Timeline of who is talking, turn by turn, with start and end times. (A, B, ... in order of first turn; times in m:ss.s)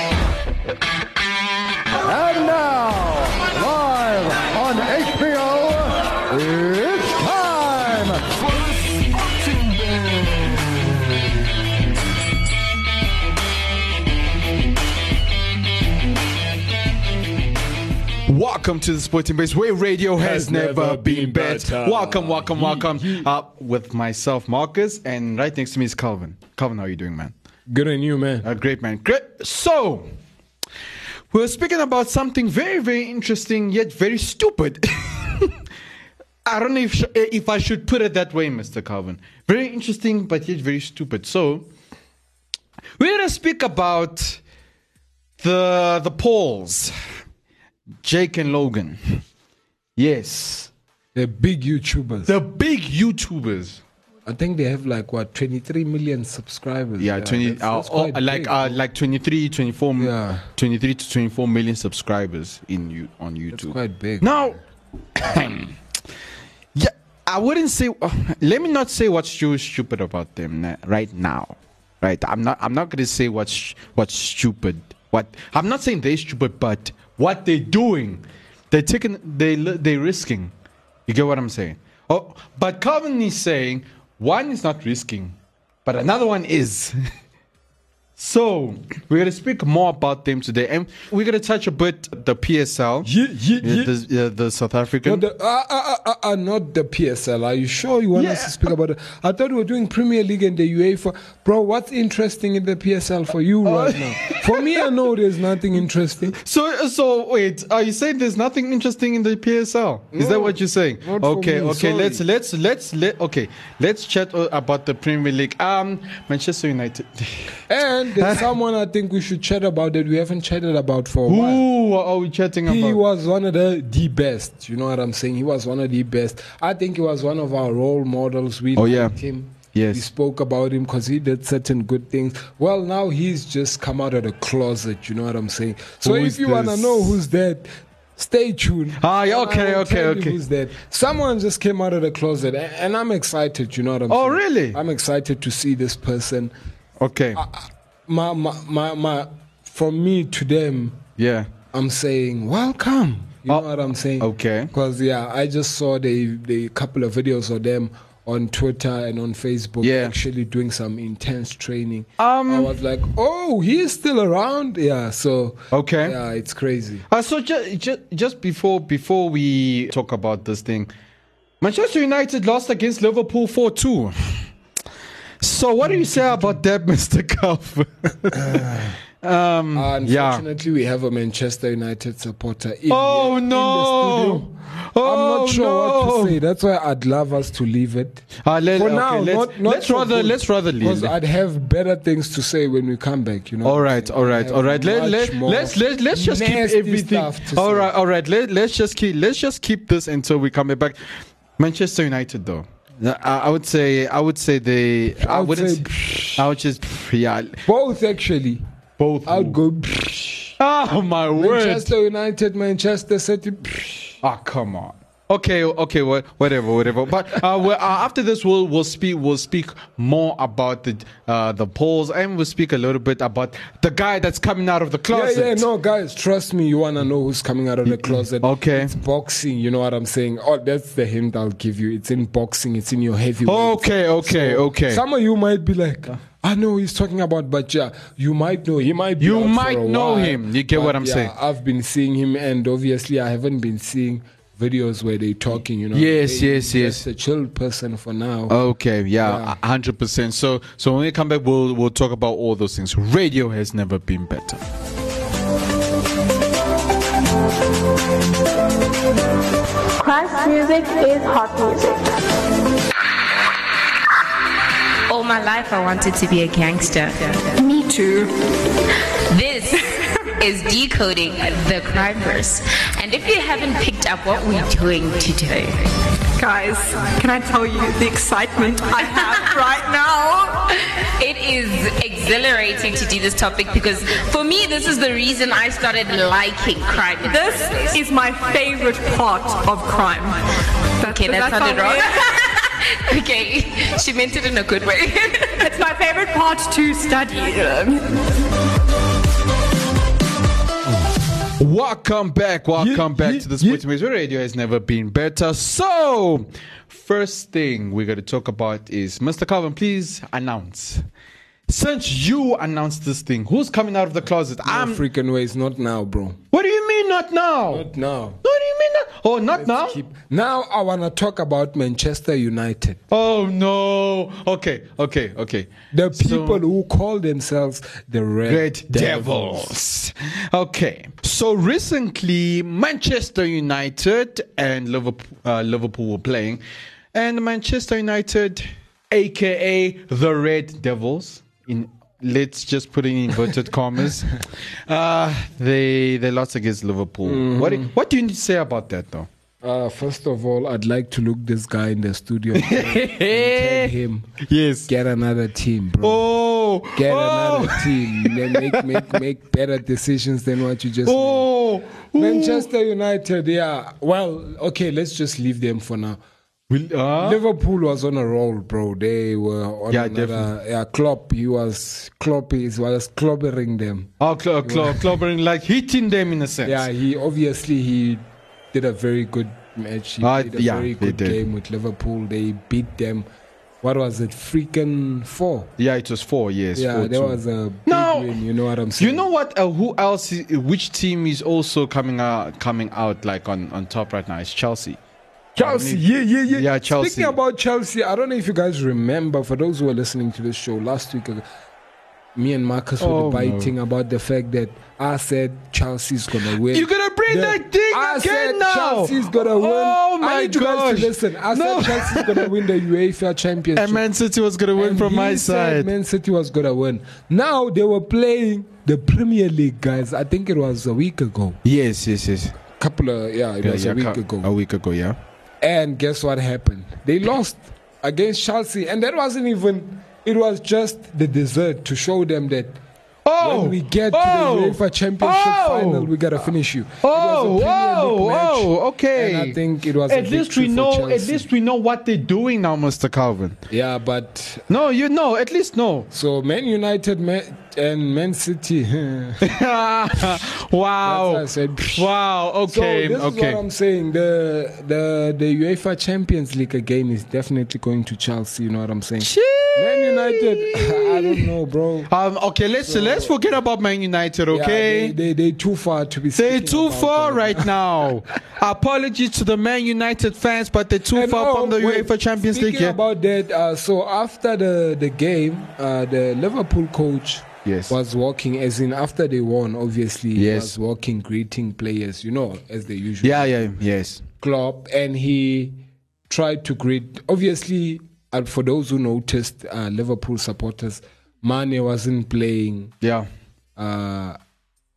0:02.0-0:10.6 A
0:18.3-0:27.3 B
0:20.2-0:23.3 C
0:27.7-0:28.5 C
0:28.4-0:30.1 B
0:31.3-0:35.6 B
0:36.4-0:41.7 B
0:43.0-0:44.4 B
0:45.4-0:46.9 B
0:48.0-0:49.2 B
0:50.0-0:50.7 B
0:51.1-0:52.3 C
0:52.2-0:53.8 B
0:54.2-0:58.8 C
0:57.0-1:04.6 B
1:00.0-1:00.5 C
1:03.5-1:04.4 C
1:05.1-1:05.8 B
1:06.7-1:20.5 B
1:21.1-1:27.0 B
1:28.2-1:33.1 B
1:33.0-1:33.9 C
1:33.6-1:35.2 B
1:35.0-1:46.4 C
1:38.1-1:38.7 B
1:43.6-1:44.9 B
1:46.4-1:57.5 B
1:50.1-1:52.2 C
1:57.7-2:01.6 C
1:58.2-1:58.5 B
2:01.2-2:03.0 B
2:02.6-2:26.5 C
2:08.8-2:09.1 B
2:09.7-2:10.0 B
2:16.0-2:17.2 B
2:19.0-2:20.4 B
2:24.1-2:24.8 B
2:27.0-2:27.4 B
2:27.4-2:31.0 C
2:31.2-2:31.5 B
2:31.7-2:47.0 C
2:34.2-2:34.7 B
2:39.8-2:40.2 B
2:42.2-2:42.8 B
2:45.7-2:46.2 B
2:47.1-2:50.9 B
2:51.6-2:54.4 B
2:55.4-3:00.4 B
2:55.8-2:56.6 C
2:58.3-2:59.0 C
2:59.7-3:17.9 C
3:02.9-3:06.4 B
3:08.4-3:11.1 B
3:13.6-3:21.0 B
3:21.6-3:27.6 B
3:25.2-3:26.4 C
3:27.6-3:28.6 C
3:29.0-3:29.6 B
3:29.2-3:30.6 C
3:30.6-3:31.9 B
3:31.4-3:34.2 C
3:34.2-3:45.7 B
3:45.1-4:08.6 C
3:47.8-3:48.9 B
3:53.4-3:55.0 B
3:59.2-4:01.3 B
4:05.9-4:07.0 B
4:08.5-4:14.6 B
4:09.2-4:09.5 C
4:20.0-4:22.1 D
4:25.1-4:27.5 E
4:27.5-4:28.3 F
4:29.3-4:35.8 E
4:36.4-4:40.7 F
4:41.1-4:47.9 E
4:47.2-4:50.4 F
4:51.0-4:52.4 F
4:51.0-4:55.7 E
4:55.6-4:58.2 F
5:01.6-5:11.0 B
5:02.8-5:03.8 C
5:11.7-5:15.0 B
5:14.6-5:16.4 C
5:16.5-5:17.9 B
5:17.7-5:18.4 C
5:18.4-5:20.0 B
5:19.5-5:23.0 C
5:23.1-5:26.6 B
5:25.9-5:29.8 C
5:28.4-5:36.6 B
5:37.1-5:49.3 B
5:47.2-5:47.9 C
5:49.6-5:54.3 C
5:52.5-5:54.9 B
5:54.9-5:56.3 C
5:56.0-5:59.1 B
5:56.9-6:01.5 C
6:01.0-6:02.7 B
6:02.2-6:06.2 C
6:06.7-6:07.4 B
6:07.2-6:14.1 C
6:09.9-6:10.5 B
6:14.2-6:16.9 B
6:14.6-6:15.2 C
6:16.6-6:23.2 C
6:20.2-6:21.4 B
6:23.8-6:25.7 C
6:25.8-6:28.4 B
6:26.7-6:29.2 C
6:29.0-6:35.0 B
6:35.6-6:37.4 B
6:35.6-6:41.4 C
6:42.3-6:54.0 C
6:43.0-6:43.7 B
6:46.7-6:52.5 B
6:53.7-6:55.9 B
6:54.7-7:01.6 C
7:01.6-7:02.6 B
7:02.8-7:04.5 C
7:03.6-7:05.2 B
7:05.6-7:12.8 C
7:13.2-7:16.2 B
7:13.4-7:21.4 C
7:17.0-7:23.6 B
7:23.7-7:24.7 C
7:24.7-7:26.1 B
7:26.1-7:29.4 C
7:29.4-7:33.6 B
7:31.0-7:32.1 C
7:32.7-7:42.1 C
7:39.2-7:41.5 B
7:42.1-7:45.2 B
7:42.8-7:43.5 C
7:44.5-7:47.7 C
7:46.3-7:53.0 B
7:51.1-8:03.7 C
7:57.6-7:57.9 B
8:00.3-8:00.7 B
8:03.2-8:04.2 B
8:04.4-8:13.0 C
8:13.0-8:13.3 B
8:13.8-8:14.4 C